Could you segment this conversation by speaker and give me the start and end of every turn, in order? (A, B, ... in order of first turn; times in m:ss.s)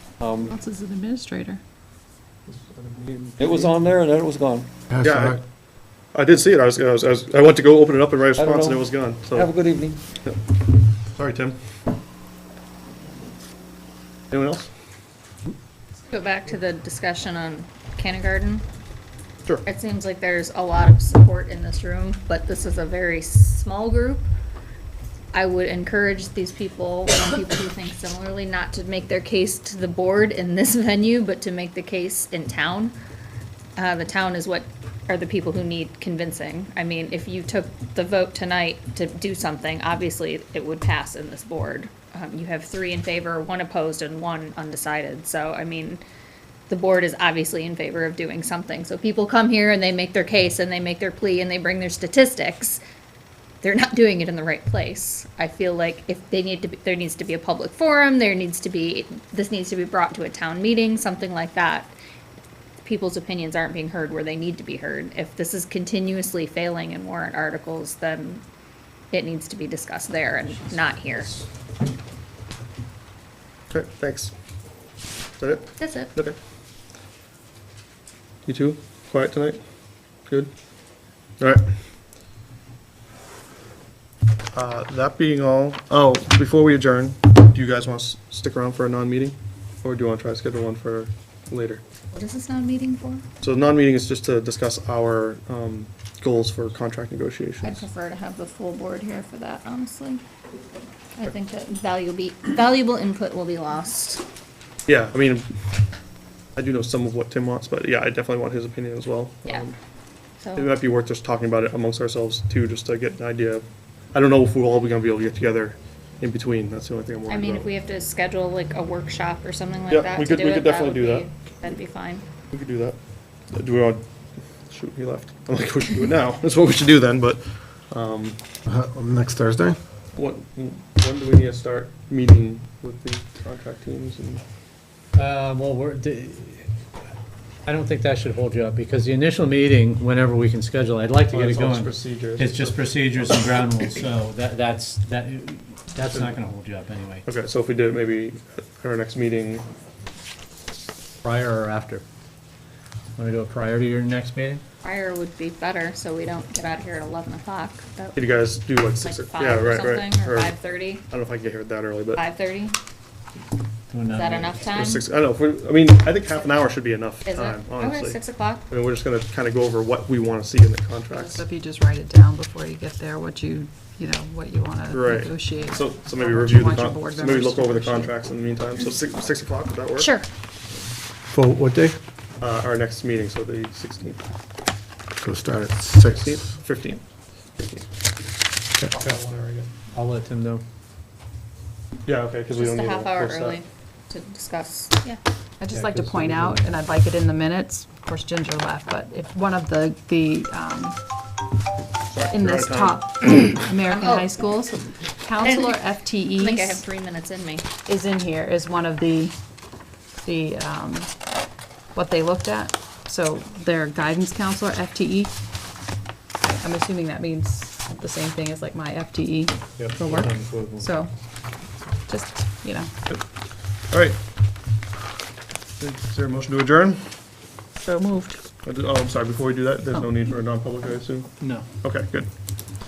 0:00.2-0:00.5 A
0:00.5-0:01.6 B
0:03.4-0:04.7 A
0:04.9-0:05.4 C
0:05.0-0:05.4 D
0:06.1-0:09.6 D
0:08.4-0:10.0 A
0:11.1-0:11.6 D
0:14.3-0:14.7 D
0:16.1-0:18.6 E
0:19.6-0:24.3 E
0:25.3-0:32.9 E
0:33.8-0:46.0 E
0:46.7-0:52.8 E
0:53.6-1:01.9 E
1:02.8-1:08.4 E
1:09.1-1:11.4 E
1:13.7-1:14.3 D
1:15.4-1:16.4 D
1:15.8-1:16.1 E
1:18.4-1:19.6 D
1:21.4-1:21.6 D
1:24.5-1:31.8 D
1:32.1-1:33.2 E
1:33.4-1:37.8 D
1:37.6-1:40.2 E
1:41.2-1:44.2 E
1:44.8-1:45.5 D
1:46.6-1:49.8 D
1:50.4-1:50.7 E
1:50.5-1:57.7 D
1:57.3-2:02.2 E
1:59.9-2:01.3 D
2:02.5-2:03.0 D
2:03.5-2:04.0 D
2:04.7-2:08.4 D
2:08.7-2:09.8 C
2:10.1-2:14.4 D
2:15.1-2:16.7 F
2:17.6-2:27.2 F
2:21.3-2:23.2 D
2:26.0-2:26.4 D
2:27.2-2:29.6 D
2:31.2-2:32.0 F
2:33.2-2:34.6 F
2:34.8-2:38.4 E
2:38.2-2:42.2 D
2:39.0-2:41.0 E
2:42.2-2:42.8 E
2:43.9-2:44.6 F
2:44.1-2:45.1 E
2:44.7-2:51.4 D
2:47.2-2:48.6 E
2:51.1-2:58.2 B
2:54.9-3:00.1 D
3:00.0-3:00.3 E
3:01.3-3:02.0 C
3:02.4-3:04.2 D
3:05.2-3:06.4 C
3:06.1-3:07.0 D
3:07.6-3:07.8 D
3:08.9-3:09.7 D
3:09.9-3:10.6 F
3:12.0-3:13.6 D
3:12.6-3:15.2 E
3:15.6-3:21.0 B
3:15.7-3:16.7 F
3:22.1-3:23.2 D
3:22.3-3:26.8 B
3:23.8-3:24.5 E
3:25.4-3:25.8 E
3:26.3-3:27.7 E
3:27.9-3:29.4 B
3:30.2-3:31.1 B
3:31.9-3:35.3 B
3:36.4-3:41.1 B
3:39.8-3:40.8 F
3:42.1-3:42.9 B
3:43.9-3:44.2 D
3:45.8-3:47.1 D
3:47.8-3:48.4 B
3:48.6-3:52.3 D
3:51.4-3:51.6 F